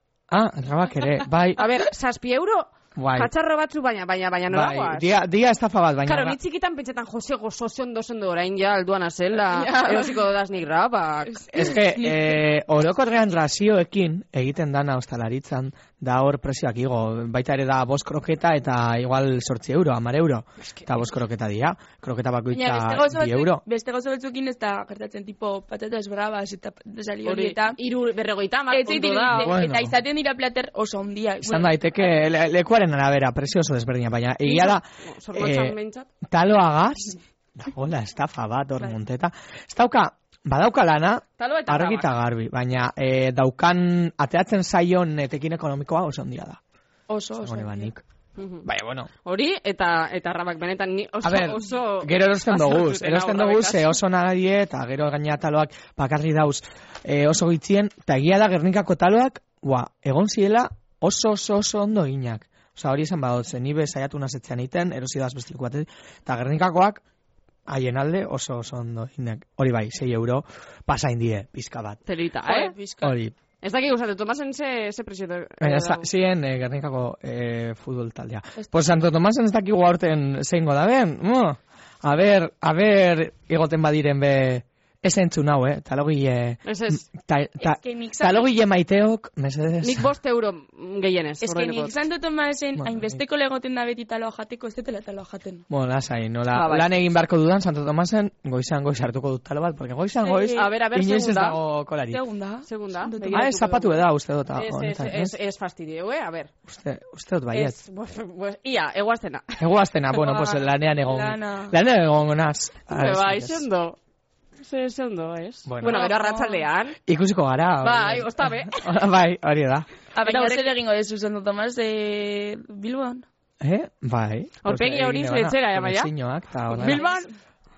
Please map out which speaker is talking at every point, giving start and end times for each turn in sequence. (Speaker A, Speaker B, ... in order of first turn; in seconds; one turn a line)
Speaker A: 0.3-1.6
Speaker B: 1.6-5.1
Speaker A: 3.0-3.3
Speaker A: 4.5-6.4
Speaker B: 6.1-11.5
Speaker C: 9.5-10.2
Speaker C: 11.3-12.4
Speaker A: 11.5-23.6
Speaker C: 22.5-27.8
Speaker B: 27.2-29.5
Speaker C: 28.7-31.7
Speaker A: 29.3-30.0
Speaker A: 31.4-46.6
Speaker B: 34.4-36.1
Speaker B: 41.4-42.1
Speaker C: 47.1-47.9
Speaker A: 47.4-48.0
Speaker B: 48.4-48.7
Speaker A: 48.6-49.1
Speaker B: 49.2-54.0
Speaker A: 51.2-67.0
Speaker A: 67.7-72.0
Speaker B: 72.1-72.7
Speaker C: 72.5-73.2
Speaker A: 73.0-73.4
Speaker B: 73.6-76.1
Speaker A: 75.6-90.1
Speaker B: 86.7-87.0
Speaker C: 87.6-88.5
Speaker B: 89.8-91.9
Speaker C: 91.4-95.7
Speaker A: 92.8-93.2
Speaker A: 95.7-102.2
Speaker B: 96.5-96.9
Speaker C: 100.2-100.7
Speaker B: 100.5-101.6
Speaker C: 102.1-103.6
Speaker B: 102.7-106.5
Speaker A: 103.3-105.3
Speaker A: 106.7-107.8
Speaker B: 107.5-109.6
Speaker A: 109.6-113.7
Speaker C: 110.2-111.8
Speaker B: 112.9-114.0
Speaker B: 114.6-117.0
Speaker A: 115.7-116.0
Speaker C: 115.8-116.7
Speaker A: 117.1-119.9
Speaker B: 117.8-118.9
Speaker C: 120.2-123.3
Speaker B: 120.2-120.7
Speaker A: 123.6-127.1
Speaker B: 124.6-126.1
Speaker B: 126.7-127.3
Speaker C: 126.8-127.3